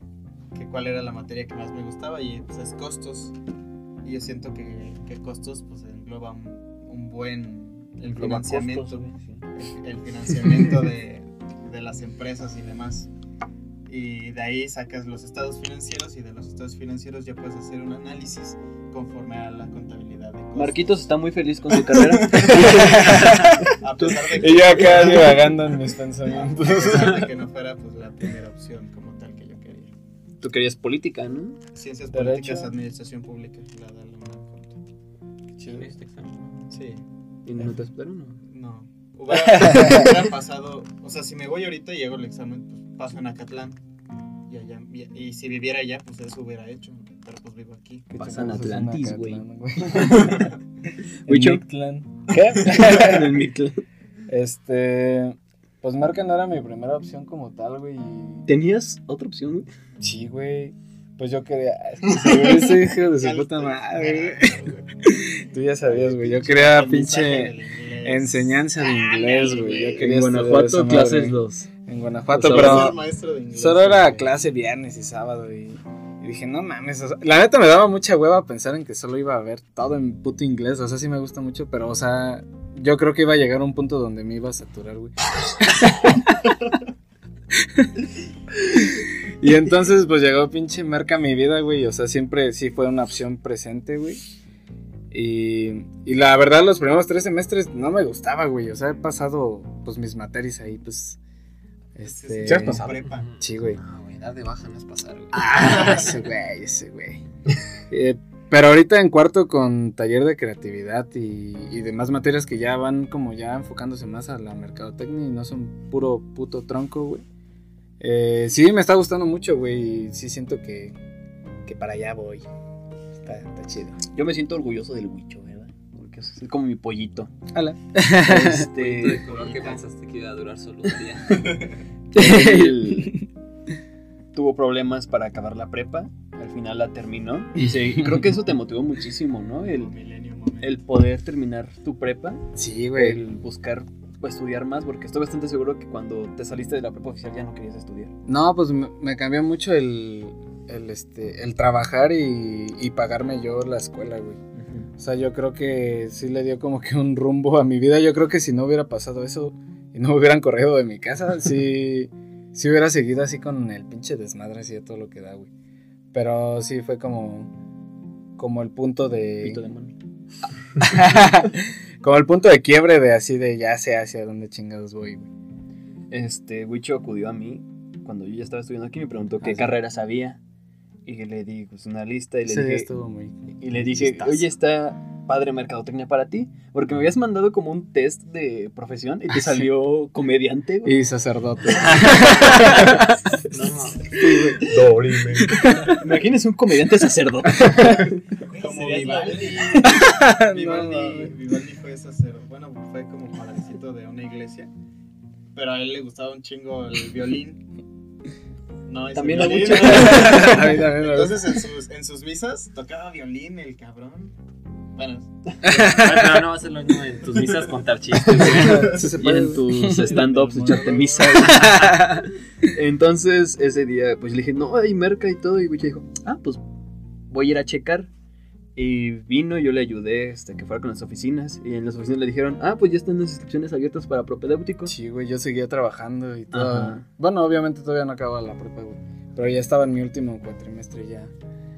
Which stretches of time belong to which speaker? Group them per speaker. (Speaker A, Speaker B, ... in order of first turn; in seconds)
Speaker A: 0.5-3.4, 4.0-13.1, 13.8-20.9, 21.7-25.7, 26.2-29.9, 31.7-34.8, 35.6-35.9, 36.7-37.0, 38.4-43.8, 44.5-48.1, 62.1-64.9, 65.8-70.1, 72.3-74.3, 102.0-103.3, 105.6-106.0, 129.3-129.8, 139.6-140.8, 198.4-204.7, 205.5-207.6, 208.8-214.3, 214.9-215.3, 218.6-219.1, 220.0-221.6
Speaker B: 8.1-9.4, 20.5-23.7, 24.9-25.2, 30.4-31.6, 37.4-38.4, 48.1-50.4, 51.3-51.6, 52.3-53.8, 58.5-59.7, 70.0-71.7, 72.3-73.0, 124.1-127.3, 128.2-129.5, 132.1-133.2, 134.3-139.9, 140.6-142.4, 142.9-148.1, 154.5-154.9, 169.4-169.9, 176.1-180.4, 181.0-182.9, 183.6-191.0, 191.7-192.8, 194.1-194.8, 195.8-198.2, 199.0-199.3, 209.1-210.8, 217.5-226.6, 227.3-228.1, 228.8-234.9, 236.5-237.0
Speaker C: 22.4-27.3, 32.1-32.7, 39.3-40.1, 48.1-50.5, 51.3-53.4, 54.3-58.5, 60.0-73.0, 73.5-86.6, 88.5-94.2, 95.1-101.2, 101.9-103.8, 105.3-107.2, 107.9-117.2, 118.0-121.0, 121.6-122.5, 123.2-124.0, 127.5-128.7, 132.1-133.2, 142.6-143.2, 148.3-154.4, 155.0-165.5, 166.1-167.5, 168.4-169.7, 170.8-175.3, 179.4-179.7, 182.5-184.5, 190.8-193.3, 194.2-194.6, 195.4-195.9, 197.5-198.1, 199.7-201.3, 209.7-211.5, 215.7-216.5, 218.3-222.2, 234.8-241.3
Speaker D: 35.5-36.6, 103.0-106.1, 128.7-131.4, 192.1-192.9, 193.5-194.2, 198.5-199.8, 215.6-218.9
Speaker E: 102.4-103.1, 194.6-195.9